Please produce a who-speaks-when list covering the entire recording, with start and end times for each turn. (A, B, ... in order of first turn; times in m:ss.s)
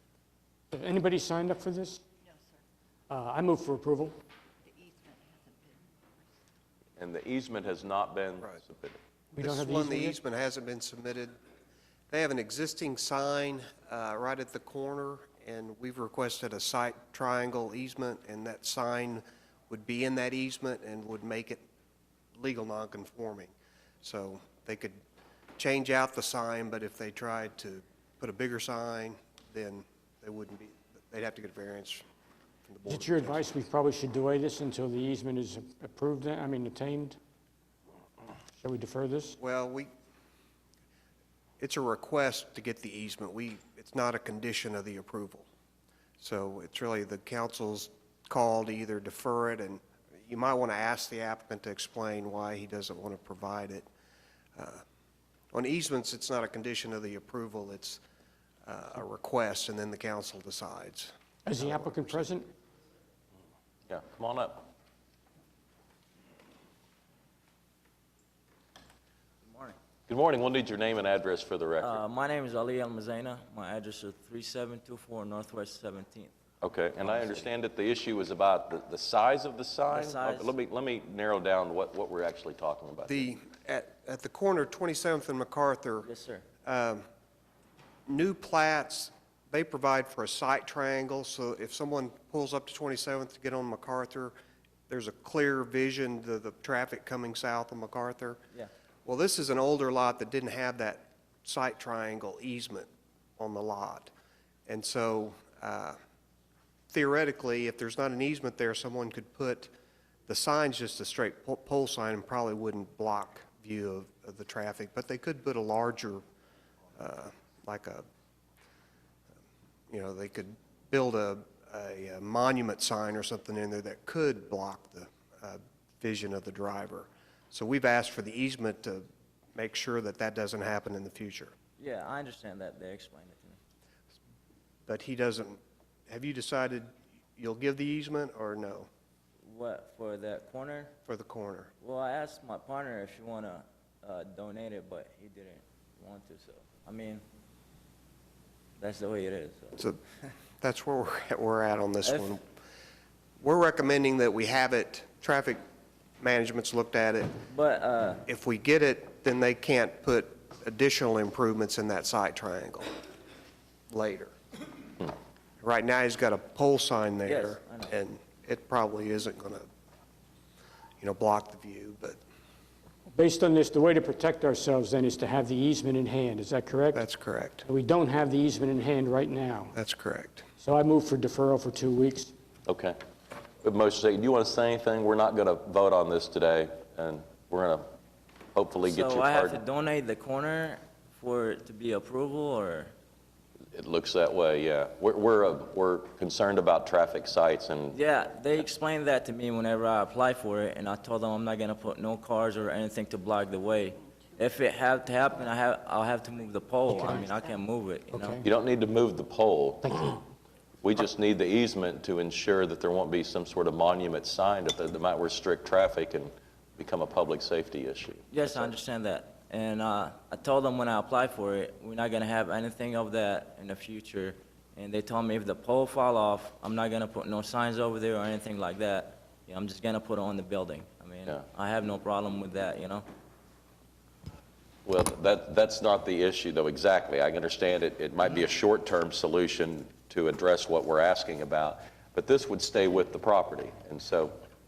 0:00.7-0:02.0 A
0:03.1-0:04.2 A
0:07.0-0:09.0 B
0:09.3-0:10.2 A
0:09.4-0:11.3 C
0:12.1-0:21.6 C
0:22.4-0:25.0 C
0:25.6-0:32.0 C
0:32.7-0:33.6 C
0:32.9-0:37.2 A
0:38.6-0:39.4 A
0:39.4-0:39.9 C
0:41.6-0:45.4 C
0:46.2-0:53.9 C
0:54.6-0:54.8 C
0:55.5-0:58.0 C
0:58.6-1:02.3 C
1:01.5-1:02.5 A
1:03.9-1:04.7 B
1:09.4-1:09.8 D
1:10.1-1:12.0 B
1:11.8-1:16.3 D
1:16.6-1:23.3 B
1:17.0-1:17.5 D
1:19.9-1:20.5 D
1:23.0-1:26.1 C
1:26.0-1:26.4 D
1:26.7-1:27.0 C
1:28.1-1:34.3 C
1:34.9-1:38.4 C
1:39.0-1:44.1 C
1:44.7-1:46.0 C
1:46.9-1:49.7 C
1:50.3-1:56.2 C
1:57.0-1:58.0 C
1:59.9-2:11.5 C
2:11.8-2:13.6 D
2:14.9-2:18.9 C
2:19.4-2:20.9 D
2:21.1-2:21.7 C
2:21.8-2:27.2 D
2:28.8-2:29.8 D
2:30.6-2:32.4 C
2:32.0-2:32.3 D
2:33.4-2:35.6 C
2:36.2-2:37.4 C
2:37.5-2:38.2 D
2:38.3-2:42.9 C
2:43.9-2:44.3 C
2:45.6-2:49.7 C
2:47.3-2:47.9 D
2:51.0-2:52.2 C
2:53.1-2:57.0 A
2:56.9-2:57.6 C
2:57.6-2:59.7 A
2:59.7-3:00.4 C
3:00.6-3:02.3 A
3:02.7-3:03.0 B
3:03.6-3:07.8 B
3:08.6-3:09.6 B
3:08.8-3:12.9 D
3:13.7-3:18.0 B
3:17.9-3:28.4 D
3:26.9-3:27.2 A
3:28.1-3:28.4 A
3:28.4-3:30.0 B
3:29.8-3:30.1 A
3:30.8-3:38.8 B
3:38.3-3:53.1 D
3:54.8-4:04.4 B